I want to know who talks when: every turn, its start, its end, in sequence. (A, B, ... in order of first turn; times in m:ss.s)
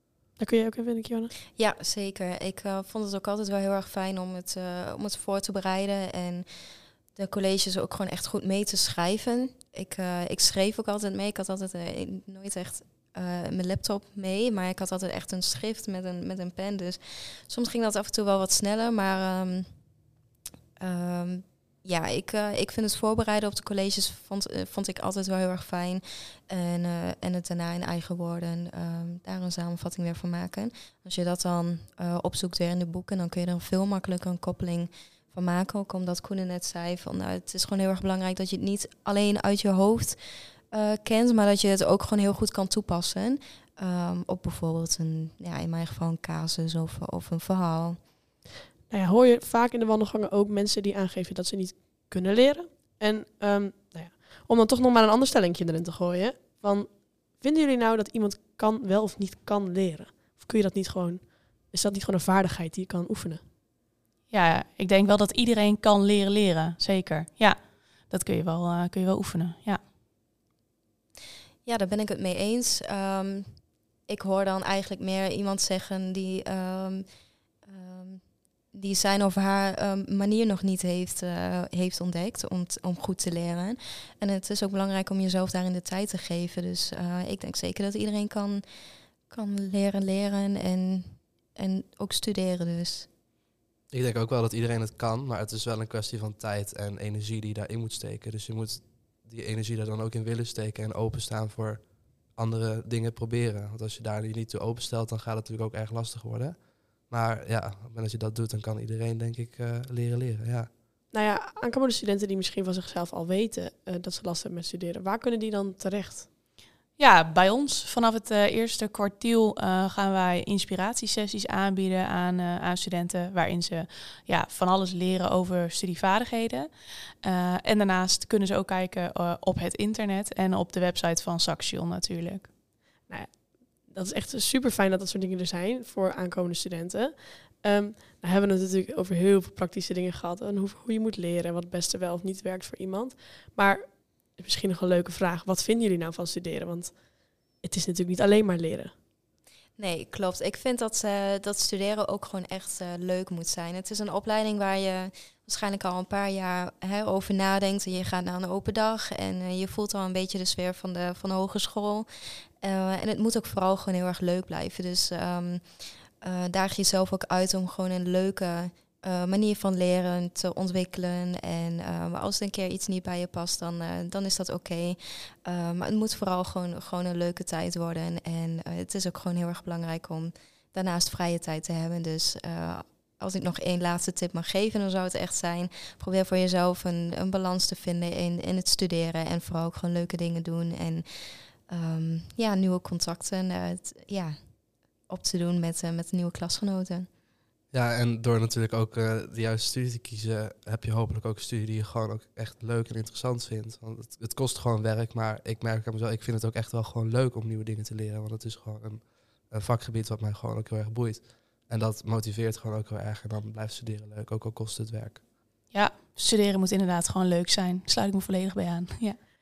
0:00.4-0:01.3 A
0:01.6-0:06.5 B
0:07.2-0:19.7 B
0:20.8-0:40.2 B
0:40.7-0:48.0 B
0:48.9-1:03.4 A
1:04.3-1:09.8 C
1:11.6-1:17.1 B
1:17.7-1:28.6 B
1:29.3-1:33.1 B
1:33.9-1:46.6 D
1:47.1-1:50.7 D
1:51.1-1:56.2 A
1:57.0-2:06.7 C
2:07.2-2:12.5 C
2:13.1-2:27.0 A
2:27.6-2:28.9 A
2:29.8-2:42.1 B
2:42.6-2:45.6 B
2:46.2-3:14.6 B
3:15.1-3:17.1 B
3:17.7-3:35.2 D
3:35.7-3:39.2 C